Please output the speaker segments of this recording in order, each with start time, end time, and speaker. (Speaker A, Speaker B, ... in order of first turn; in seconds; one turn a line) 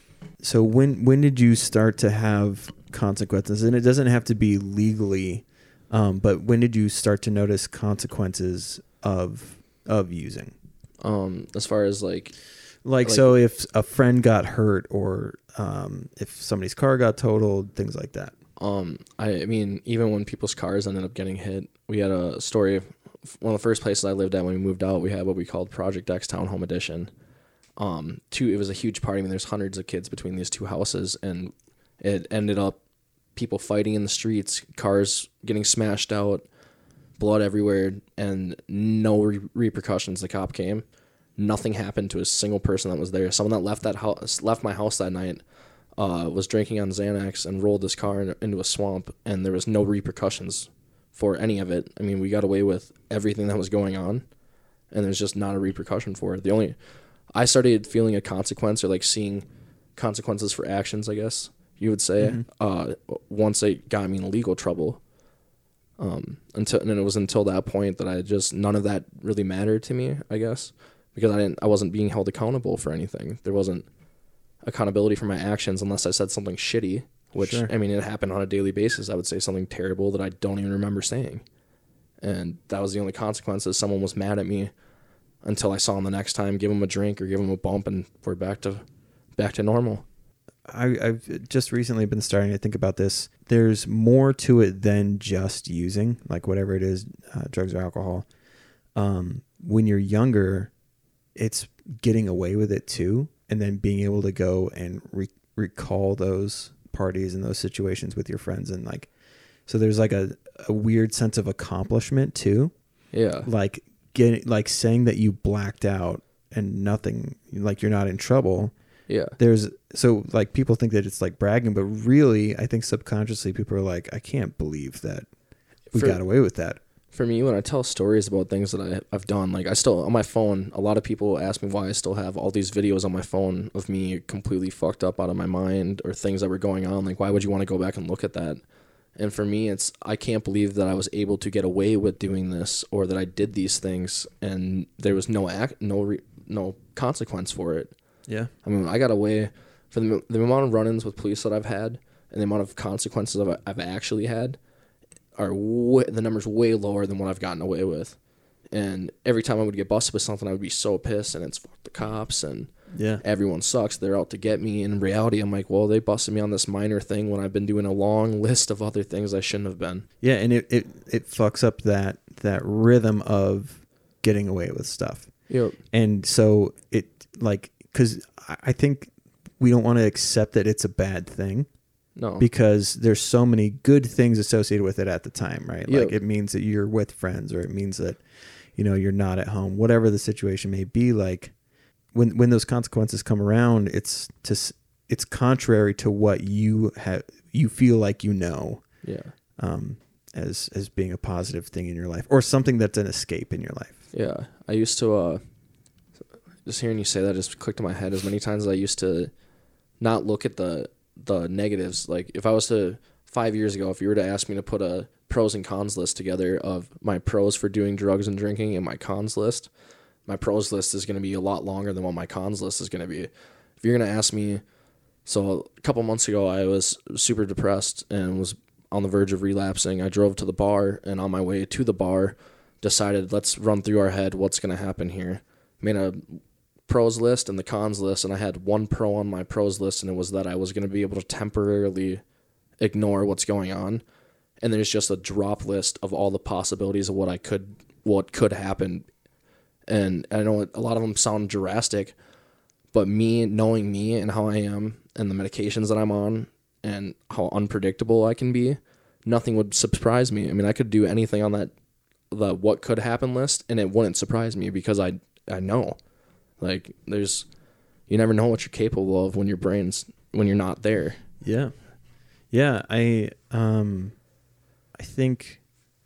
Speaker A: 0.4-10.5
Speaker B: 11.0-12.4
Speaker A: 12.8-18.4
Speaker B: 13.0-13.3
Speaker B: 18.6-27.1
Speaker B: 27.8-32.8
Speaker B: 33.3-36.5
Speaker B: 37.2-45.4
Speaker B: 46.0-54.3
Speaker B: 54.9-65.1
Speaker A: 62.2-62.4
Speaker B: 66.0-73.9
Speaker B: 74.6-81.5
Speaker A: 77.4-77.7
Speaker B: 82.2-84.7
Speaker B: 85.4-88.8
Speaker B: 89.4-90.0
Speaker A: 90.7-98.3
Speaker A: 98.9-100.7
Speaker A: 101.3-109.1
Speaker A: 109.7-112.8
Speaker B: 113.1-113.5
Speaker A: 113.4-118.7
Speaker B: 119.1-119.3
Speaker A: 119.4-125.3
Speaker B: 125.9-126.2
Speaker A: 125.9-126.8
Speaker B: 127.1-138.6
Speaker B: 139.2-148.0
Speaker B: 148.6-154.6
Speaker B: 155.4-170.1
Speaker A: 162.9-163.2
Speaker A: 170.2-181.8
Speaker B: 175.5-175.8
Speaker B: 182.2-182.5
Speaker A: 182.4-191.6
Speaker B: 185.9-186.2
Speaker A: 192.1-204.0
Speaker B: 199.0-199.3
Speaker B: 204.1-205.4
Speaker B: 206.7-209.4
Speaker B: 210.0-219.7
Speaker B: 220.3-224.6
Speaker B: 225.2-242.2
Speaker B: 242.8-244.0
Speaker B: 244.6-249.1
Speaker B: 249.9-252.2
Speaker B: 252.9-261.7
Speaker B: 262.3-271.2
Speaker A: 271.4-274.3
Speaker A: 274.9-275.6